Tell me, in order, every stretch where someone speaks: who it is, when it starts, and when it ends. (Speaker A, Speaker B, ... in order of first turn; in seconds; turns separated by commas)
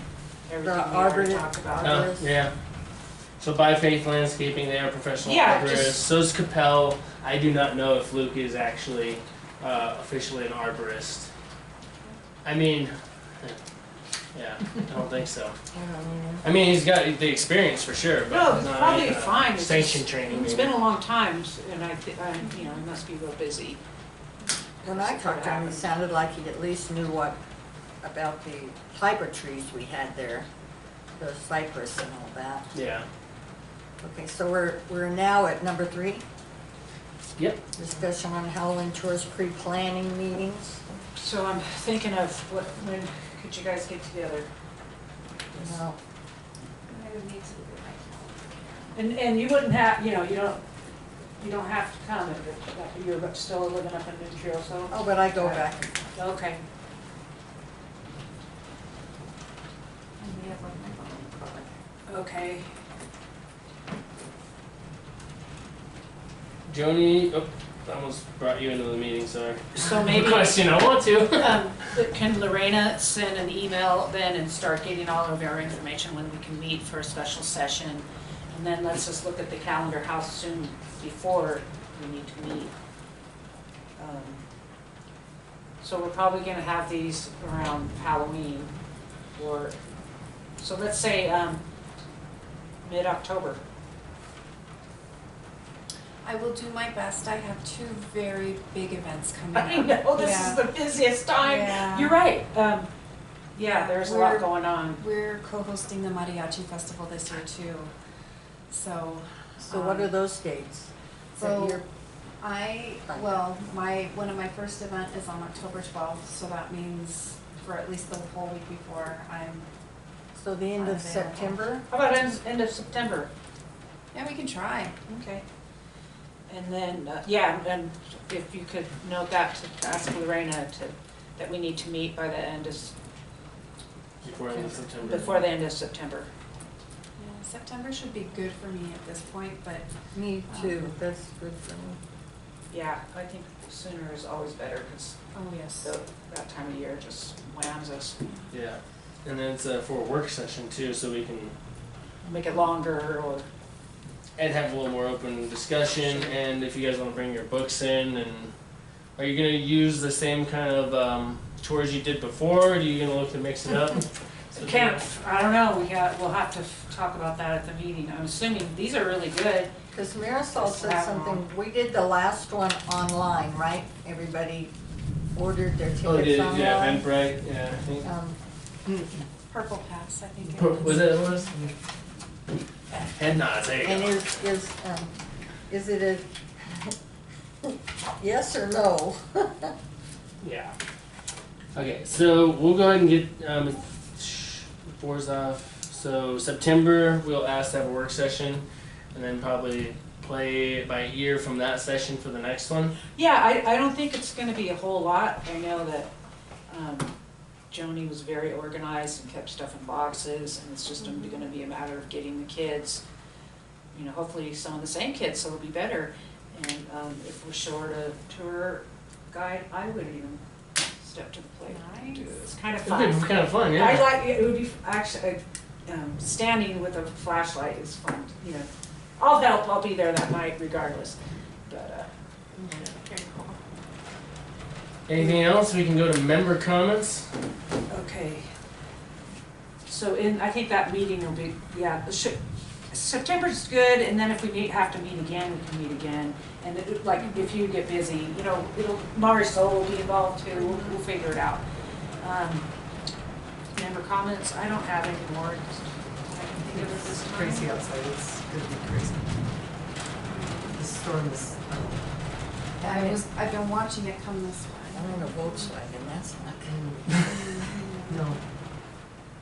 Speaker A: 0.5-2.1, Speaker B: 0.6-2.3, Speaker C: 1.8-2.5, Speaker C: 3.4-11.3, Speaker A: 5.2-6.0, Speaker C: 12.4-13.6, Speaker C: 14.3-15.6, Speaker B: 15.7-16.4, Speaker C: 16.4-20.9, Speaker A: 18.3-23.8, Speaker A: 24.8-25.9, Speaker B: 24.8-27.4, Speaker B: 28.0-30.5, Speaker B: 31.2-32.7, Speaker C: 32.7-33.1, Speaker B: 34.0-36.2, Speaker B: 37.8-40.8, Speaker A: 41.2-44.5, Speaker B: 45.6-46.0, Speaker D: 46.9-48.9, Speaker A: 49.0-50.6, Speaker A: 51.4-56.6, Speaker B: 54.9-56.1, Speaker D: 60.2-61.7, Speaker A: 62.1-62.7, Speaker C: 66.7-71.7, Speaker A: 69.8-70.6, Speaker A: 71.4-82.7, Speaker A: 84.0-84.4, Speaker A: 85.8-88.7, Speaker A: 89.4-89.8, Speaker A: 90.6-91.6, Speaker A: 92.8-93.6, Speaker D: 96.2-100.7, Speaker A: 99.5-102.9, Speaker D: 101.4-102.2, Speaker A: 103.5-105.0, Speaker D: 103.6-107.9, Speaker D: 108.7-110.1, Speaker B: 109.6-111.8, Speaker D: 111.3-111.8, Speaker D: 112.4-119.7, Speaker B: 113.1-113.3, Speaker B: 120.4-121.8, Speaker D: 120.8-121.6, Speaker A: 121.9-123.3, Speaker D: 124.1-125.0, Speaker A: 125.1-125.4, Speaker A: 126.5-132.9, Speaker C: 134.2-135.4, Speaker D: 134.9-135.4, Speaker A: 135.0-136.3, Speaker D: 137.2-139.9, Speaker B: 140.1-142.0, Speaker D: 140.4-140.9, Speaker A: 142.7-145.2, Speaker D: 145.3-145.9, Speaker A: 145.8-148.2, Speaker D: 148.2-148.5, Speaker C: 148.5-151.5, Speaker A: 152.3-153.4, Speaker C: 154.4-158.5, Speaker A: 156.0-156.3, Speaker C: 159.2-165.0, Speaker A: 164.5-169.7, Speaker B: 169.9-174.7, Speaker A: 170.6-171.4, Speaker B: 175.3-177.1, Speaker C: 176.0-178.1, Speaker B: 178.0-178.4, Speaker D: 179.5-181.4, Speaker C: 180.5-181.5, Speaker C: 183.0-184.2, Speaker B: 183.8-185.1, Speaker B: 185.7-186.9, Speaker B: 187.6-189.7, Speaker C: 190.4-190.7, Speaker C: 191.7-202.9, Speaker A: 203.2-206.1, Speaker A: 206.7-207.1, Speaker A: 207.7-213.0, Speaker A: 213.9-220.4, Speaker A: 221.0-231.2, Speaker D: 221.7-222.2, Speaker C: 222.8-224.1, Speaker A: 231.7-232.1, Speaker D: 232.6-233.6, Speaker C: 235.1-237.3, Speaker A: 237.9-238.5, Speaker A: 239.8-242.4, Speaker A: 242.9-251.6, Speaker D: 247.2-247.5, Speaker D: 250.5-251.0, Speaker A: 252.2-252.7, Speaker A: 253.7-257.7, Speaker E: 256.6-259.4, Speaker D: 260.2-260.8, Speaker E: 260.7-262.6, Speaker D: 262.8-265.7, Speaker B: 262.9-263.2, Speaker B: 264.9-266.7, Speaker E: 266.7-267.5, Speaker D: 267.2-268.3, Speaker E: 268.1-268.4